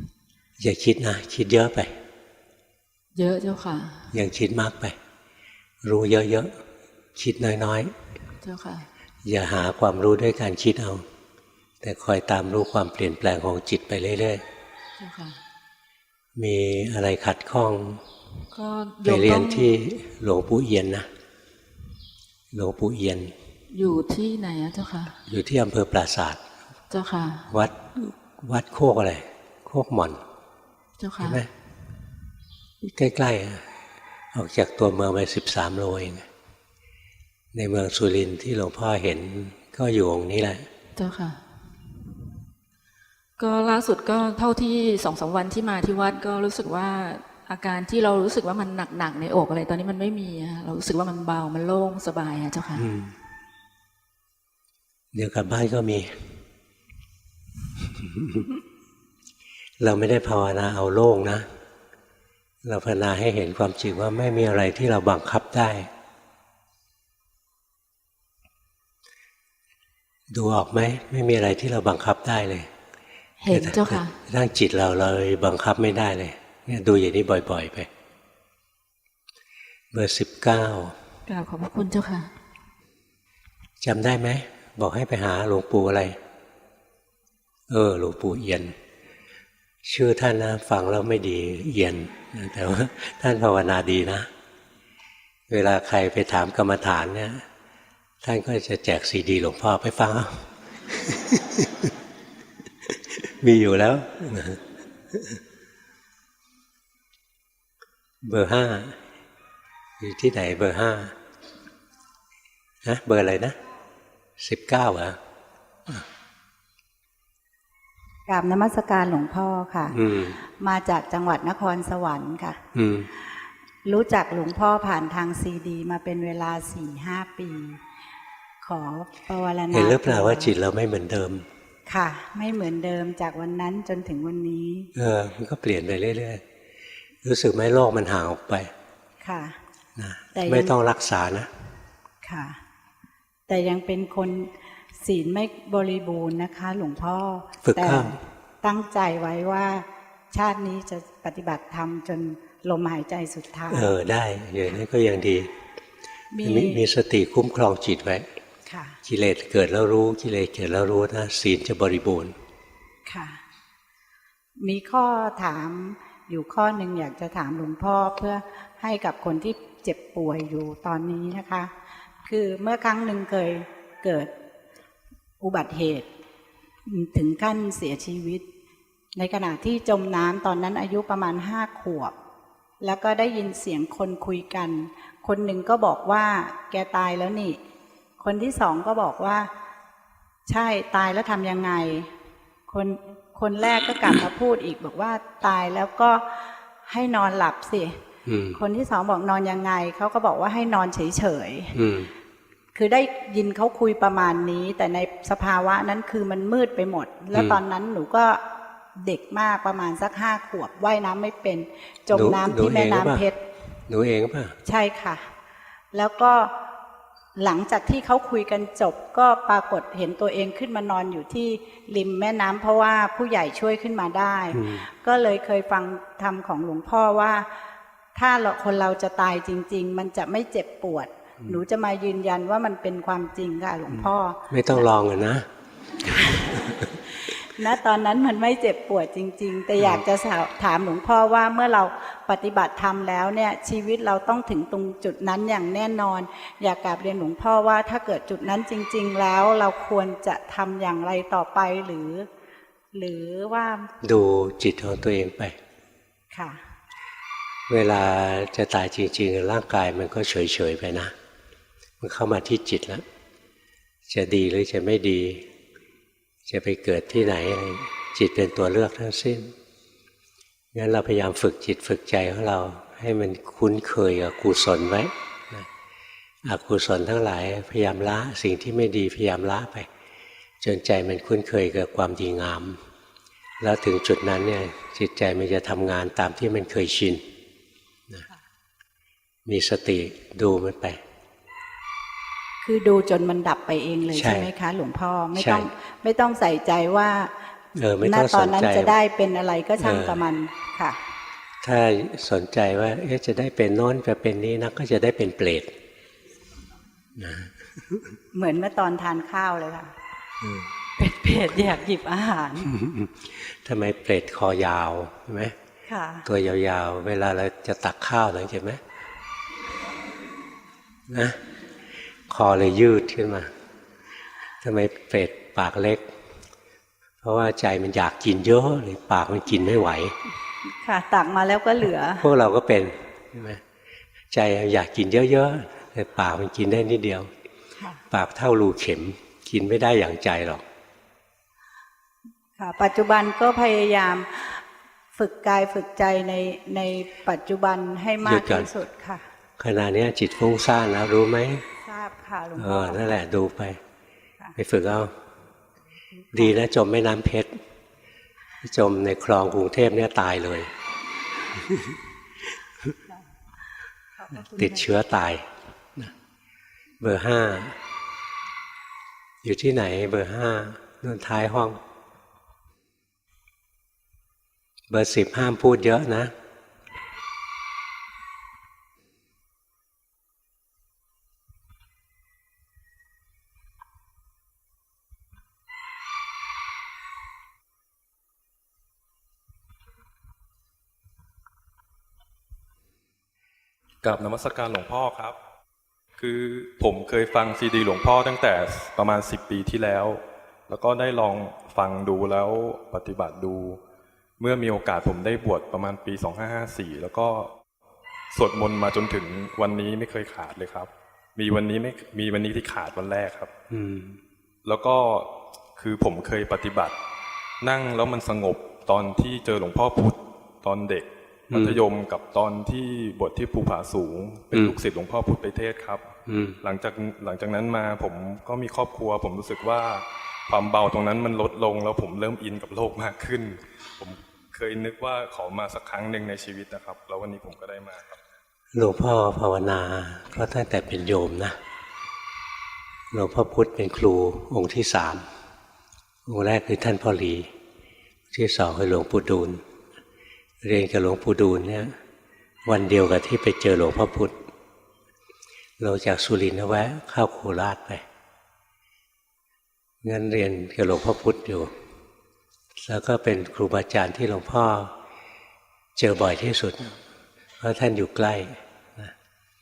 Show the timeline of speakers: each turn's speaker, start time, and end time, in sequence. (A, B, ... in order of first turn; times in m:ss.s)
0:00.6-0:02.0 A
0:03.1-0:04.1 B
0:04.1-0:05.0 A
0:05.8-0:06.6 A
0:07.1-0:07.9 A
0:08.4-0:08.9 B
0:09.2-0:11.0 A
0:11.8-0:14.4 A
0:15.0-0:15.4 B
0:16.4-0:18.0 A
0:18.5-0:19.7 B
0:19.0-0:21.1 A
0:22.5-0:23.3 A
0:23.7-0:25.2 B
0:25.3-0:26.4 A
0:26.9-0:27.5 B
0:27.5-0:30.2 A
0:31.0-0:31.4 B
0:31.2-0:31.5 A
0:32.8-0:33.7 A
0:34.3-0:36.3 A
0:37.5-0:40.7 A
0:41.0-0:41.4 B
0:43.4-0:52.9 B
0:52.8-0:53.1 A
0:55.1-0:56.2 A
0:57.8-0:58.5 A
0:59.8-1:01.5 A
1:02.6-1:05.9 A
1:10.3-1:12.7 A
1:13.4-1:14.2 B
1:13.5-1:17.9 A
1:19.9-1:21.0 A
1:21.3-1:22.3 B
1:23.8-1:26.2 A
1:27.7-1:28.7 A
1:29.8-1:34.3 A
1:35.5-1:37.4 A
1:38.2-1:41.9 A
1:42.8-1:45.4 A
1:48.2-1:49.0 A
1:50.0-1:51.2 A
1:52.8-1:53.6 A
1:54.4-1:55.2 A
1:58.3-2:02.6 C
1:59.9-2:00.4 A
2:02.7-2:03.1 A
2:03.8-2:07.8 C
2:08.6-2:10.5 C
2:09.7-2:11.5 A
2:11.9-2:14.9 C
2:14.9-2:16.4 A
2:17.2-2:18.7 A
2:19.2-2:19.6 C
2:20.0-2:21.5 A
2:20.3-2:20.7 C
2:22.2-2:22.6 C
2:23.5-2:33.9 C
2:27.6-2:28.2 A
2:33.7-2:35.5 A
2:36.3-2:36.8 C
2:36.4-2:38.3 A
2:38.7-2:39.0 C
2:39.0-2:42.4 A
2:43.0-2:43.4 C
2:44.6-2:51.7 C
2:52.2-2:54.3 C
2:55.4-2:56.1 C
2:56.9-2:58.4 C
2:59.1-3:02.1 C
3:02.8-3:07.6 C
3:08.2-3:09.5 C
3:10.5-3:12.1 C
3:12.7-3:18.0 C
3:18.2-3:18.6 A
3:18.5-3:21.8 C
3:21.7-3:22.1 A
3:22.7-3:28.4 C
3:27.3-3:27.6 A
3:29.0-3:33.4 C
3:32.1-3:33.3 A
3:33.9-3:34.6 A
3:34.6-3:35.3 C
3:35.9-3:36.5 C
3:37.4-3:47.5 C
3:44.5-3:44.8 A
3:48.1-3:54.4 C
3:53.9-3:55.4 A
3:56.0-4:12.3 C
4:12.9-4:13.9 C
4:14.0-4:15.6 A
4:16.3-4:16.6 C
4:17.7-4:21.1 A
4:22.0-4:23.0 A
4:24.1-4:25.5 A
4:26.4-4:29.5 A
4:30.7-4:35.7 A
4:36.4-4:39.9 A
4:40.6-4:42.8 A
4:43.6-4:47.3 A
4:49.4-4:51.0 A
4:52.6-4:57.3 C
4:54.1-4:54.5 A
4:55.3-4:55.7 A
4:57.8-4:59.0 A
4:58.0-5:01.0 C
4:59.8-5:00.2 A
5:01.6-5:05.7 A
5:07.2-5:08.2 A
5:08.3-5:09.9 C
5:10.4-5:10.7 A
5:11.0-5:12.7 C
5:12.6-5:15.6 A
5:15.9-5:16.2 C
5:16.2-5:18.8 A
5:21.1-5:21.4 A
5:22.3-5:23.5 A
5:24.6-5:26.0 A
5:27.2-5:30.2 A
5:30.6-5:32.3 C
5:32.2-5:33.6 A
5:34.3-5:37.3 A
5:38.1-5:40.6 A
5:42.6-5:44.6 C
5:45.1-5:49.2 C
5:48.2-5:48.7 A
5:49.6-5:51.6 A
5:51.8-5:53.0 C
5:52.6-5:53.8 A
5:54.6-5:55.1 A
5:56.2-5:56.5 C
5:56.3-5:57.5 A
5:58.6-6:00.7 A
6:01.5-6:02.0 A
6:04.2-6:04.8 C
6:04.4-6:06.1 A
6:07.0-6:07.8 A
6:09.4-6:11.8 A
6:14.9-6:16.3 A
6:34.0-6:35.3 D
6:36.2-6:43.8 D
6:44.4-6:47.5 D
6:48.3-6:53.5 D
6:53.7-6:54.2 A
6:54.6-6:56.9 D
6:57.6-7:06.0 D
7:01.5-7:01.8 A
7:06.2-7:06.6 A
7:06.6-7:18.2 D
7:18.7-7:21.6 A
7:23.1-7:25.3 A
7:26.2-7:27.5 A
7:28.3-7:29.6 A
7:30.6-7:31.9 A
7:32.6-7:34.4 A
7:35.8-7:38.0 A
7:40.0-7:41.7 A
7:42.8-7:44.9 A
7:46.0-7:47.0 A
7:47.6-7:49.1 A